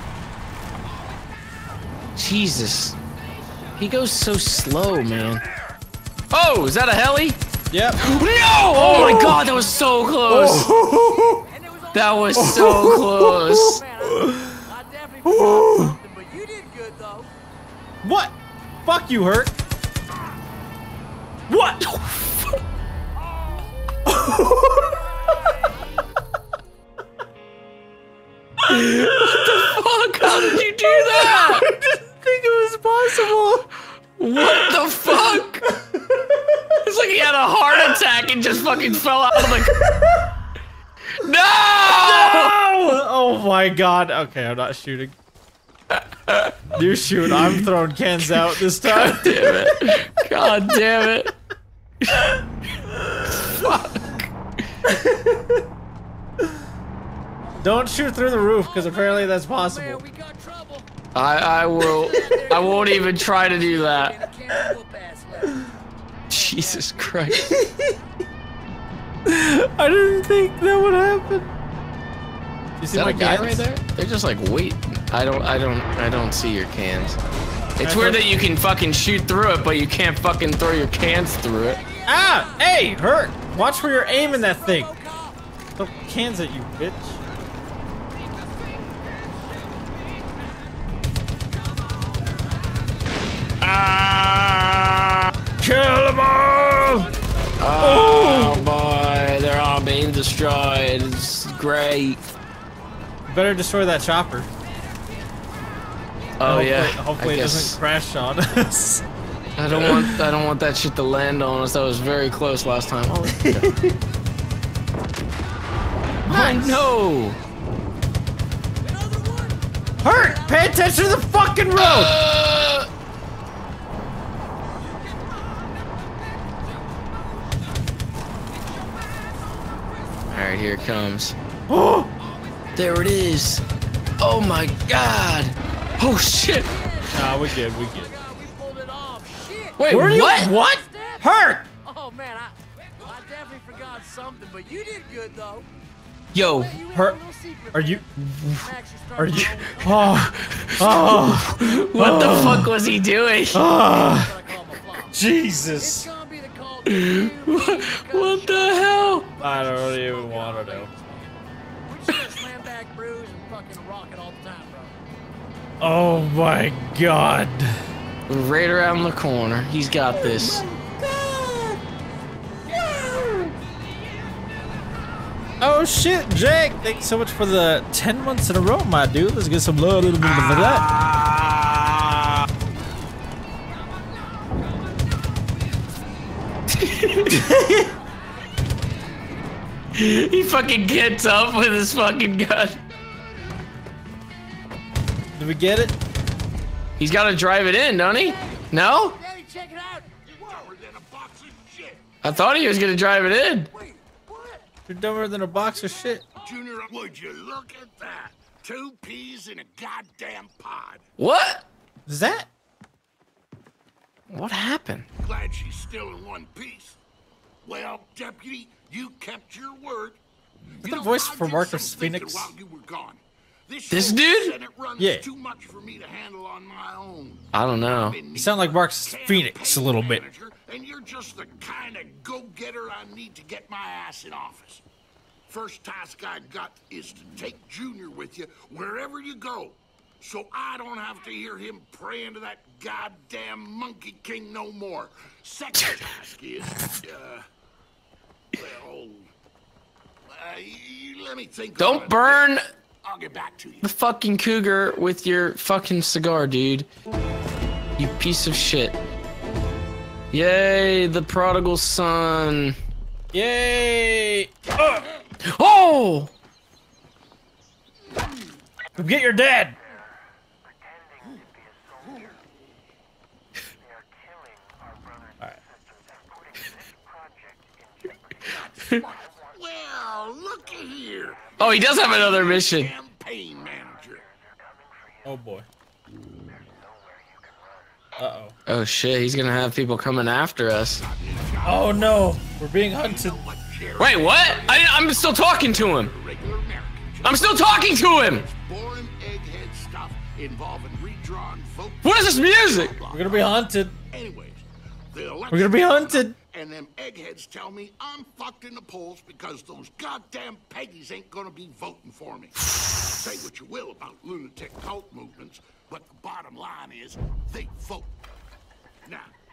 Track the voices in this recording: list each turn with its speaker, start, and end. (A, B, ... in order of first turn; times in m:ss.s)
0:02.2-0:03.0 A
0:03.8-0:05.4 A
0:06.3-0:07.4 A
0:07.7-0:08.0 B
0:08.0-0:10.7 A
0:08.7-0:09.4 B
0:10.3-0:11.4 B
0:10.9-0:17.3 C
0:11.9-0:13.8 A
0:12.4-0:14.6 B
0:15.2-0:16.0 B
0:18.0-0:19.6 B
0:21.5-0:21.9 B
0:21.8-0:22.6 A
0:24.1-0:24.9 B
0:25.3-0:25.6 C
0:28.6-0:31.7 A
0:29.1-0:29.4 B
0:30.2-0:33.7 B
0:34.2-0:35.7 A
0:34.4-0:36.7 B
0:36.8-0:39.9 A
0:39.3-0:40.3 B
0:41.2-0:42.6 A
0:41.9-0:45.2 B
0:45.9-0:46.6 A
0:46.8-0:50.0 B
0:47.2-0:47.6 A
0:48.4-0:51.3 A
0:52.9-0:53.6 B
0:53.4-0:54.1 A
0:54.9-0:55.6 B
0:57.6-1:00.0 B
0:58.5-1:00.9 C
1:01.2-1:04.2 A
1:01.8-1:05.7 C
1:06.3-1:07.2 C
1:06.3-1:07.5 A
1:07.4-1:07.9 B
1:09.3-1:11.5 B
1:12.8-1:13.7 B
1:12.9-1:17.2 A
1:17.8-1:21.8 A
1:17.8-1:18.2 B
1:21.6-1:25.4 C
1:22.1-1:24.9 B
1:25.8-1:27.2 B
1:33.6-1:35.3 A
1:35.6-1:37.1 B
1:37.6-1:42.2 A
1:37.8-1:38.7 B
1:43.3-1:44.5 B
1:46.4-1:47.8 A
1:46.4-1:49.1 B
1:49.6-1:53.8 A
1:49.8-1:50.2 B
1:53.3-1:54.0 B
1:56.3-1:57.4 A
1:56.3-1:56.8 B
1:58.8-2:01.3 C
2:00.0-2:02.2 B
2:01.8-2:02.9 A
2:10.3-2:11.4 A
2:11.7-2:12.1 B
2:12.8-2:13.6 A
2:14.2-2:16.7 A
2:16.5-2:21.3 C
2:17.1-2:18.1 B
2:19.8-2:20.5 A
2:19.9-2:21.6 B
2:21.8-2:25.7 C
2:26.3-2:26.8 A
2:26.5-2:32.7 C
2:26.9-2:27.2 B
2:27.7-2:28.0 B
2:29.2-2:32.7 B
2:30.3-2:33.7 A
2:33.5-2:34.3 B
2:33.7-2:35.2 C
2:35.1-2:36.1 B
2:35.8-2:41.3 C
2:36.9-2:39.3 A
2:39.4-2:40.9 B
2:41.8-2:44.9 C
2:45.8-2:47.8 B
2:48.3-2:50.6 A
2:50.2-2:51.8 B
2:52.7-2:53.5 B
2:55.6-3:00.9 B
3:00.2-3:02.3 A
3:06.7-3:07.4 A
3:07.3-3:07.9 B
3:10.0-3:12.8 A
3:15.4-3:16.0 B
3:17.0-3:19.2 A
3:18.2-3:18.6 C
3:19.1-3:20.7 C
3:20.4-3:22.0 D
3:22.2-3:23.7 A
3:23.7-3:24.6 C
3:24.9-3:26.2 B
3:26.4-3:31.0 D
3:31.2-3:31.7 A
3:32.1-3:32.5 B
3:34.3-3:35.1 A
3:35.2-3:37.0 D
3:37.6-3:40.2 D
3:40.8-3:54.8 D
3:40.8-3:42.5 B
3:43.9-3:44.6 A
3:45.0-3:45.2 B
3:47.5-3:48.2 A
3:48.4-3:50.2 B
3:55.5-4:07.5 D
4:08.5-4:09.3 D
4:10.3-4:12.5 D
4:11.8-4:12.7 A
4:13.0-4:13.9 D
4:13.8-4:16.9 A
4:18.0-4:19.0 A
4:20.3-4:22.8 A
4:23.3-4:25.0 B
4:25.4-4:26.3 A
4:29.0-4:29.8 B
4:39.5-4:44.3 D
4:41.6-4:42.9 A
4:45.2-4:45.7 B
4:48.2-4:48.5 B
4:48.7-4:51.0 A
4:51.0-4:52.4 D
4:51.6-4:53.4 B
4:52.9-5:18.1 D
4:54.0-4:56.1 A
4:57.2-4:58.5 A
5:02.0-5:03.0 A
5:03.1-5:04.0 B
5:05.5-5:06.4 B
5:19.1-5:19.3 D